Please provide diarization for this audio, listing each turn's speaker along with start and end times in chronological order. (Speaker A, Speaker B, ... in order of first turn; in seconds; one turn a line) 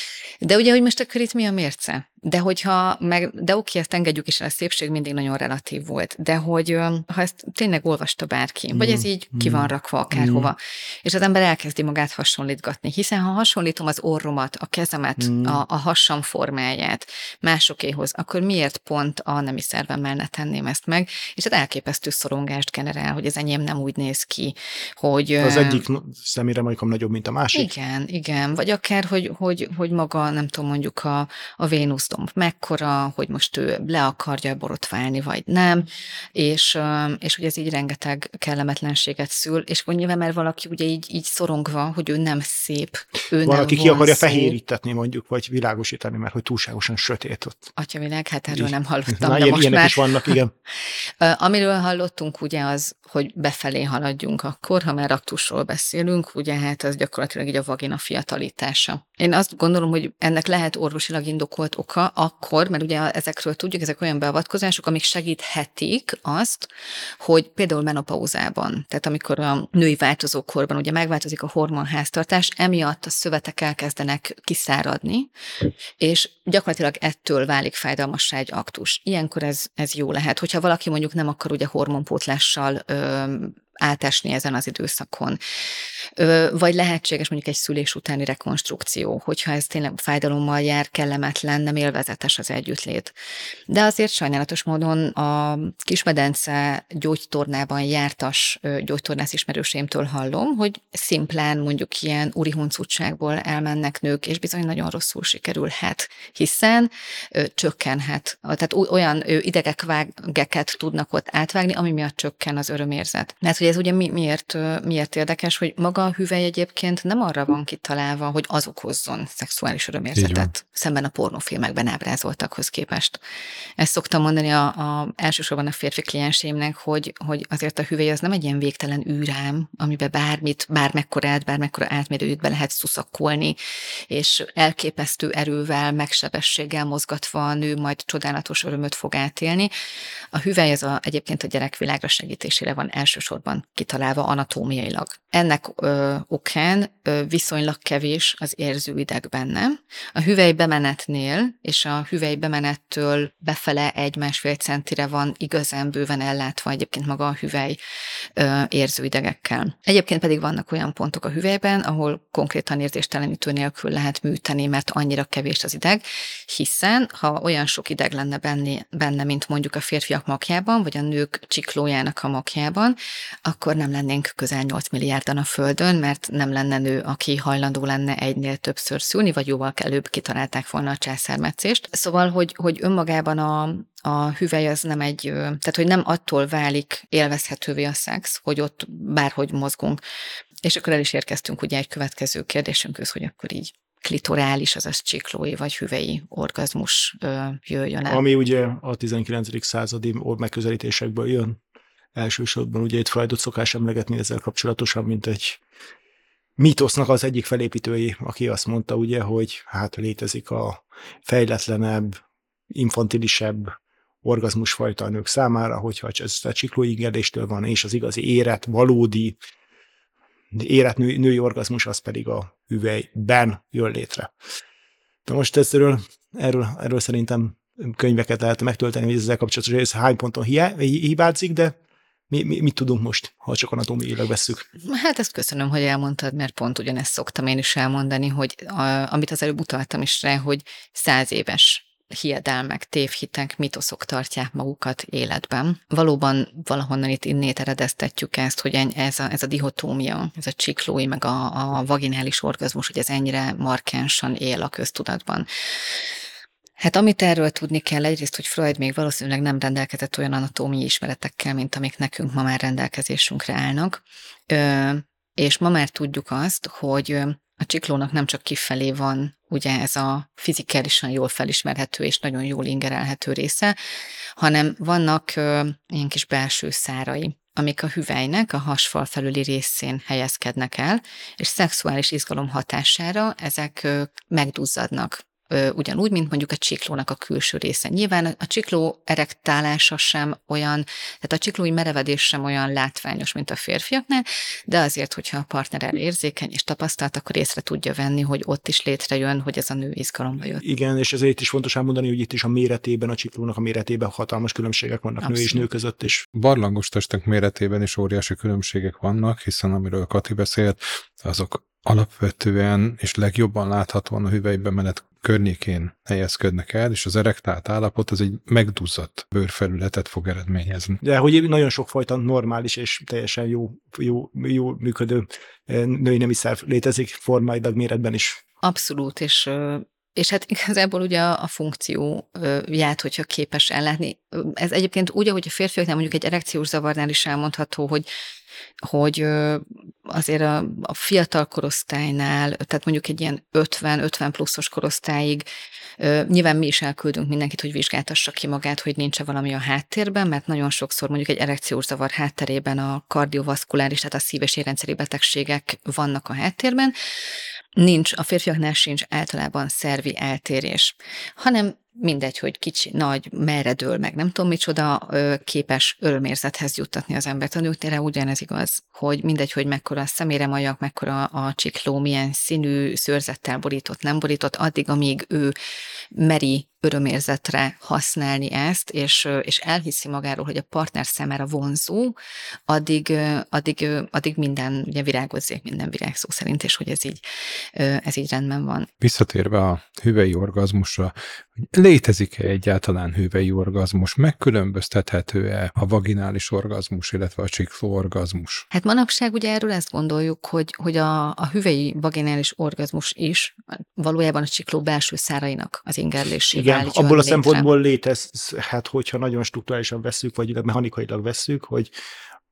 Speaker A: 0.4-25.8
Speaker B: 8.7-10.5
Speaker B: 15.2-15.6
Speaker B: 25.4-27.7
Speaker A: 27.5-44.6
Speaker B: 43.4-47.6
Speaker A: 47.8-50.4
Speaker B: 48.5-50.5
Speaker A: 51.2-66.7
Speaker A: 67.2-75.3
Speaker A: 76.0-85.4
Speaker A: 86.2-93.1
Speaker A: 93.7-123.2
Speaker C: 120.2-120.5
Speaker A: 123.8-133.6
Speaker A: 134.1-139.7
Speaker A: 140.3-157.8
Speaker A: 158.4-190.0
Speaker A: 190.6-198.2
Speaker B: 198.1-201.6
Speaker B: 202.2-205.6
Speaker B: 206.6-212.2
Speaker B: 212.7-213.7
Speaker B: 214.2-219.4
Speaker B: 220.5-224.3
Speaker B: 225.3-231.8
Speaker B: 232.3-234.7
Speaker A: 234.8-255.5
Speaker A: 256.8-273.8
Speaker A: 274.4-300.6
Speaker B: 300.6-306.2
Speaker A: 305.2-305.6
Speaker C: 306.3-321.0
Speaker B: 321.0-328.4
Speaker A: 328.6-338.1
Speaker A: 338.8-345.4
Speaker A: 346.0-356.9
Speaker A: 357.8-375.6
Speaker A: 376.1-382.2
Speaker A: 382.7-387.2
Speaker A: 387.8-388.9
Speaker C: 389.0-398.7
Speaker A: 398.7-407.7
Speaker B: 406.5-411.9